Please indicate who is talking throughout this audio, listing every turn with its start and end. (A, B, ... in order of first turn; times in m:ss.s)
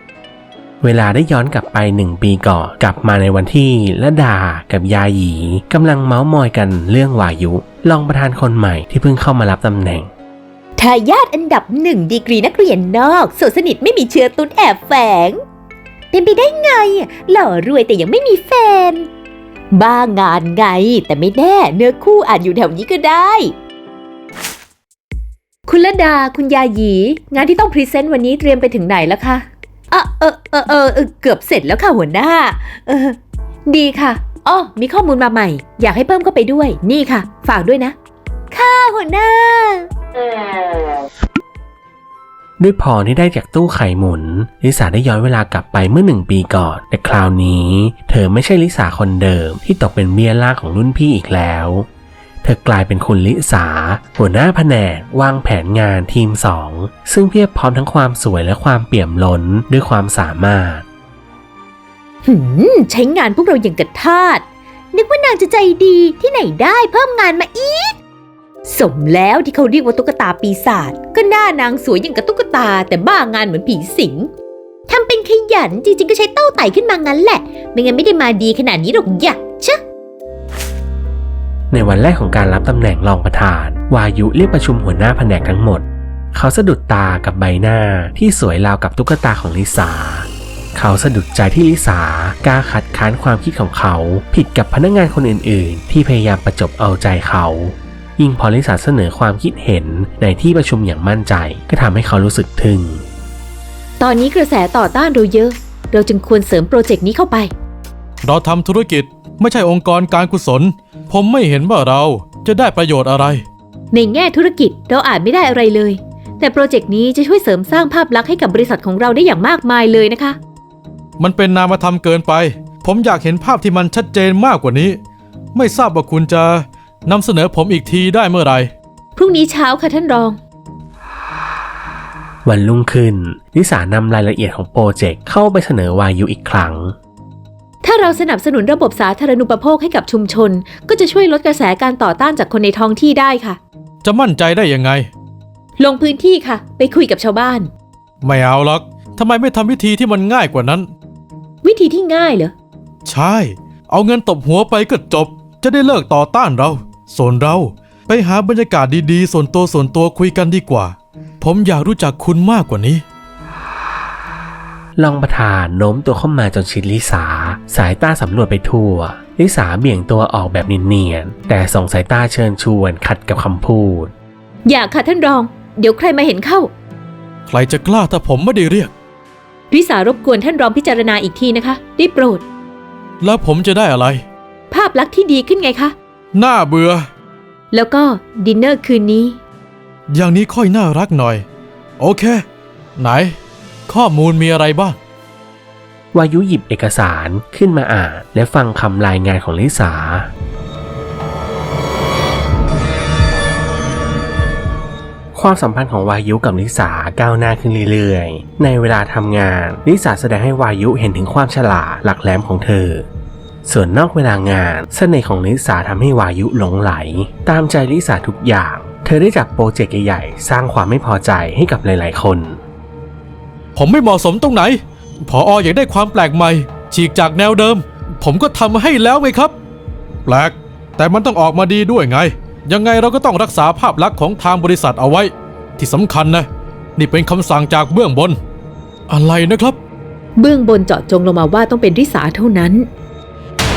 0:00.8-0:10.1 A
0:10.8-0:15.4 B
0:16.1-0:19.1 B
0:19.7-0:23.5 B
0:25.7-0:38.0 B
0:38.5-0:39.9 B
0:42.6-0:51.9 A
0:52.4-1:00.8 A
1:02.2-1:08.0 B
1:08.7-1:14.3 B
1:14.9-1:19.8 B
1:21.7-1:43.0 A
1:44.0-1:47.5 B
1:48.2-1:53.4 C
1:53.9-2:00.4 B
2:01.2-2:05.0 C
2:05.6-2:08.7 C
2:09.2-2:10.4 B
2:12.4-2:17.0 A
2:17.8-2:23.6 B
2:24.0-2:25.1 C
2:25.8-2:27.7 B
2:28.2-2:30.9 C
2:31.6-2:32.5 B
2:33.0-2:43.0 C
2:45.0-2:54.1 A
2:54.6-2:56.7 B
2:57.5-2:58.9 C
2:59.7-3:02.4 B
3:03.2-3:04.2 C
3:04.7-3:06.0 B
3:06.3-3:07.0 C
3:07.7-3:09.4 B
3:10.1-3:11.4 C
3:12.0-3:12.4 C
3:13.0-3:13.4 C
3:13.9-3:15.0 C
3:16.1-3:20.3 A
3:25.3-3:33.1 A
3:33.6-3:42.6 A
3:43.8-3:49.6 C
3:50.3-3:58.4 C
3:59.1-3:59.8 C
4:00.4-4:02.9 B